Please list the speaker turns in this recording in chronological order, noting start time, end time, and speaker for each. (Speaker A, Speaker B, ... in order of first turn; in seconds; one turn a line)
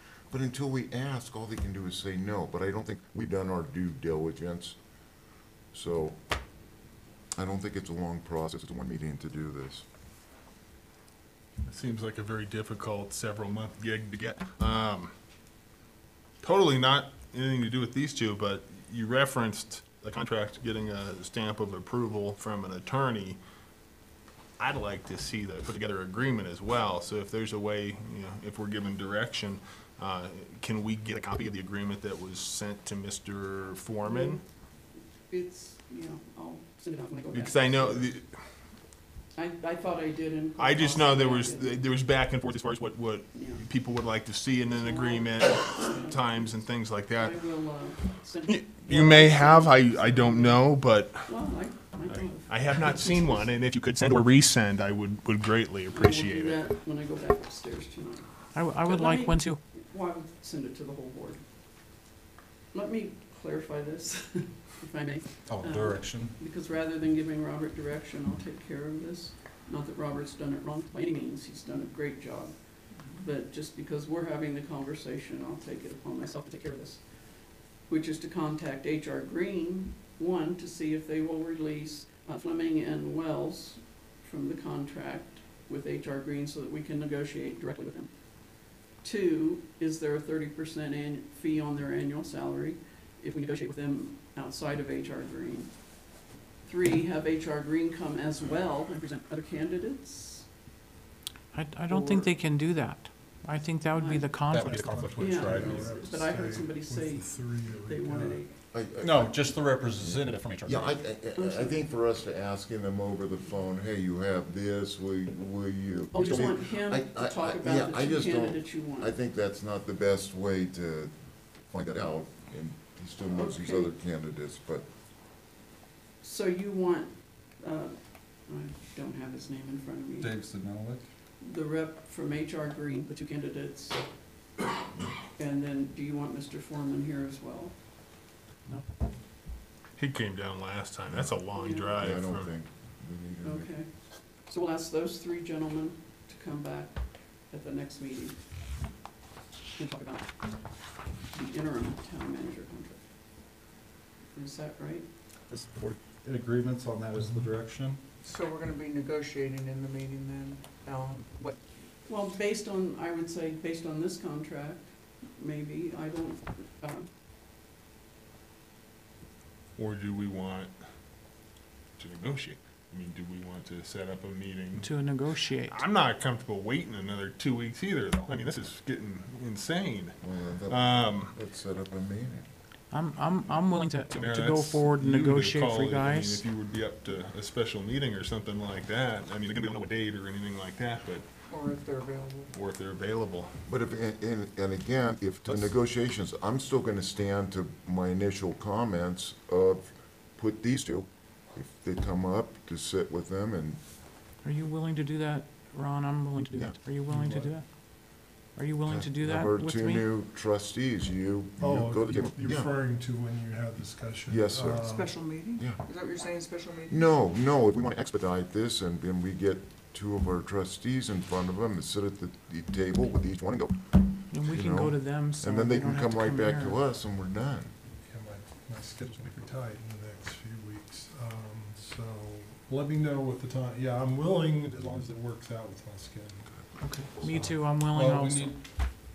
Speaker A: 0.3-4.8
Speaker A: 5.7-6.2
Speaker A: 7.3-9.8
Speaker B: 11.7-15.1
Speaker B: 16.4-23.4
Speaker B: 24.6-34.4
Speaker C: 34.0-34.4
Speaker C: 35.3-38.1
Speaker B: 37.3-38.3
Speaker C: 39.3-41.9
Speaker B: 40.6-47.5
Speaker C: 43.3-43.6
Speaker C: 44.6-53.5
Speaker B: 48.4-51.3
Speaker B: 52.2-56.6
Speaker C: 55.9-61.9
Speaker D: 58.5-59.6
Speaker C: 62.7-100.5
Speaker E: 65.5-66.3
Speaker F: 72.9-73.2
Speaker D: 101.5-104.8
Speaker F: 101.9-102.3
Speaker C: 103.9-104.3
Speaker E: 104.5-105.9
Speaker G: 104.6-108.4
Speaker C: 105.2-108.5
Speaker A: 108.7-109.4
Speaker E: 109.0-111.0
Speaker A: 110.0-124.8
Speaker C: 111.4-111.8
Speaker C: 116.1-119.1
Speaker C: 123.3-123.9
Speaker C: 126.2-130.3
Speaker E: 130.2-131.1
Speaker C: 131.4-134.4
Speaker C: 135.3-137.8
Speaker B: 140.0-142.5
Speaker C: 141.5-141.9
Speaker A: 142.0-143.7
Speaker C: 143.4-148.4
Speaker C: 149.8-153.1
Speaker C: 154.3-155.1
Speaker E: 155.5-158.0
Speaker F: 158.2-161.8
Speaker C: 162.1-167.1
Speaker B: 169.8-170.8
Speaker B: 172.0-174.9
Speaker D: 174.8-175.8
Speaker B: 175.7-181.3
Speaker A: 180.2-182.4
Speaker D: 182.9-186.4
Speaker B: 184.1-191.2
Speaker F: 191.5-192.5
Speaker B: 192.5-193.5
Speaker A: 193.7-203.8
Speaker E: 195.4-195.8
Speaker D: 204.4-210.1
Speaker G: 207.1-207.6
Speaker A: 208.9-212.7
Speaker G: 211.6-215.2
Speaker A: 214.3-214.8
Speaker F: 214.7-217.2
Speaker A: 215.6-215.8
Speaker A: 216.9-227.7
Speaker D: 224.3-226.8
Speaker G: 228.0-236.7
Speaker E: 234.8-235.0
Speaker D: 236.7-238.5
Speaker E: 237.2-238.6